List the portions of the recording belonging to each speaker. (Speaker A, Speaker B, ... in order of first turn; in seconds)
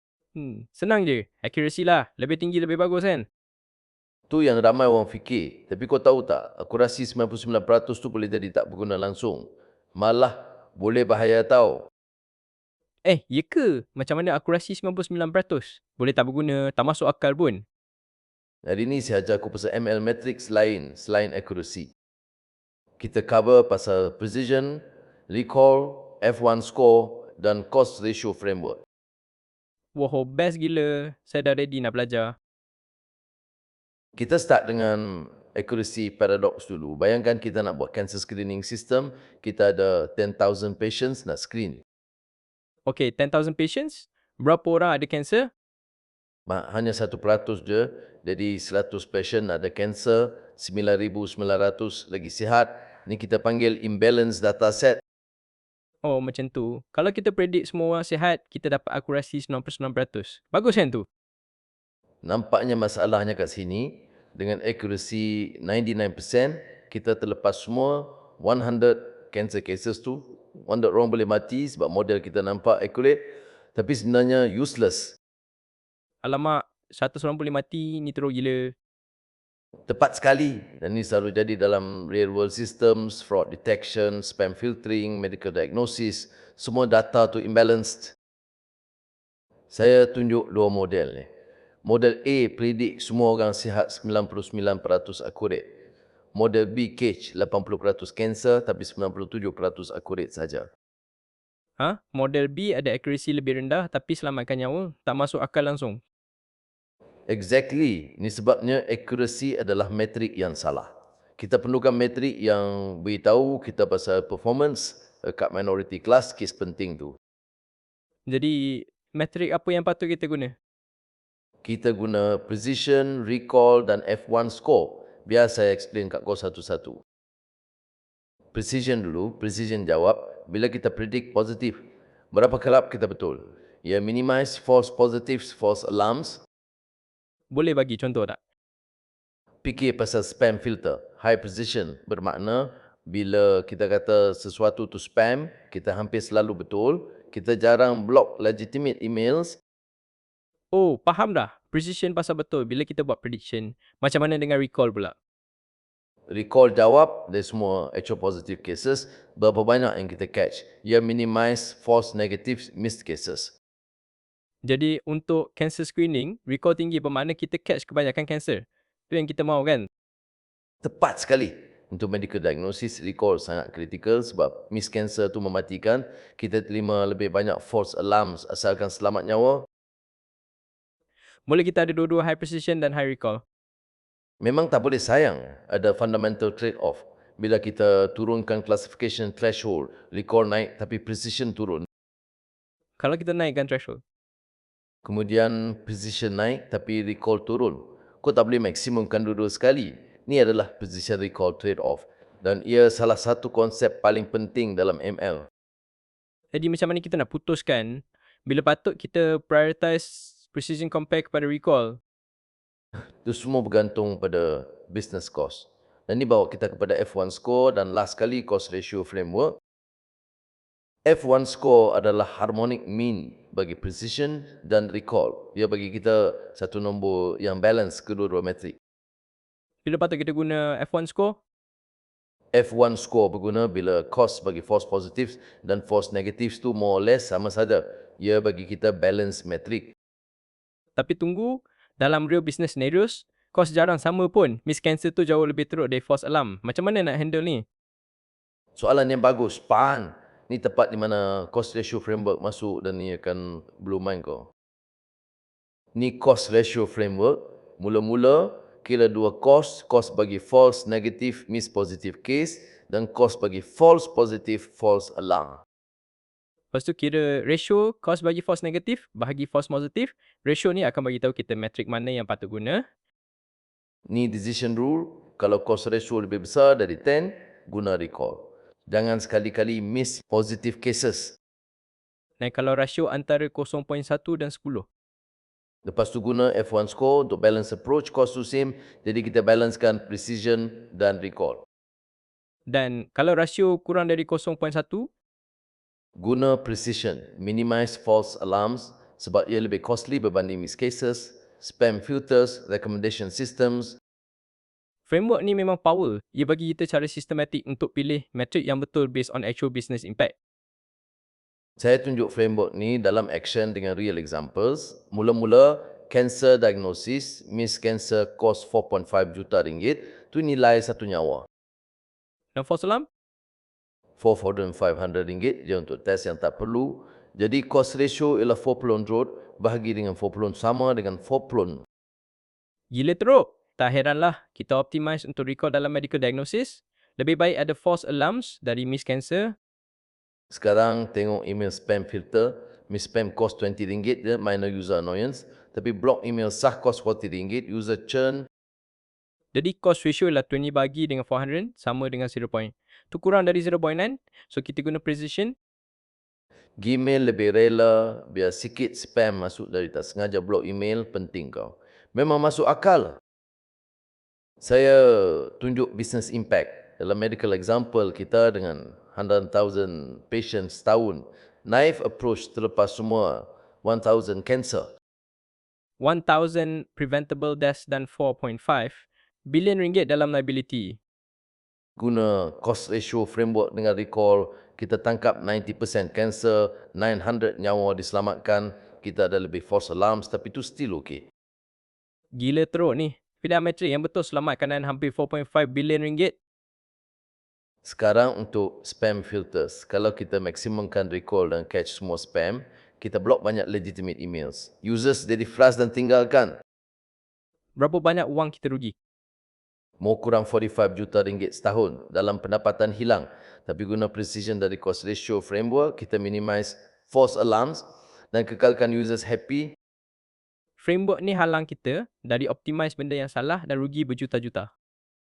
Speaker A: 0.3-3.3, 13.1-17.6, 29.9-32.4, 42.9-45.5, 56.0-61.0, 76.2-78.7, 101.8-106.0, 118.3-120.5, 137.5-138.4, 150.7-155.1, 164.6-169.9, 181.5-183.4, 193.0-194.0, 206.5-212.0, 229.8-231.4, 241.0-247.7, 266.7-272.9, 282.4-284.9, 292.7-295.1, 305.1-310.3, 322.6-323.1, 332.9-339.6, 349.5-355.6, 376.0-381.0, 392.4-396.4, 407.8-408.9, 420.8-424.7
Speaker B: 4.3-11.9, 18.7-21.9, 23.0-28.8, 34.2-41.8, 46.5-55.0, 62.2-75.2, 79.9-88.2, 89.7-91.3, 91.8-95.7, 96.3-100.7, 107.3-117.2, 121.6-127.0, 128.5-131.8, 132.3-136.4, 139.6-149.6, 156.3-163.5, 170.8-179.7, 184.4-191.9, 195.1-205.5, 213.2-219.6, 221.1-228.8, 232.5-239.9, 248.8-254.5, 255.9-265.6, 274.1-281.4, 285.9-291.6, 296.2-304.0, 311.8-321.5, 324.2-331.8, 340.5-348.5, 356.8-363.2, 364.6-374.9, 382.0-391.2, 397.9-406.6, 410.0-419.7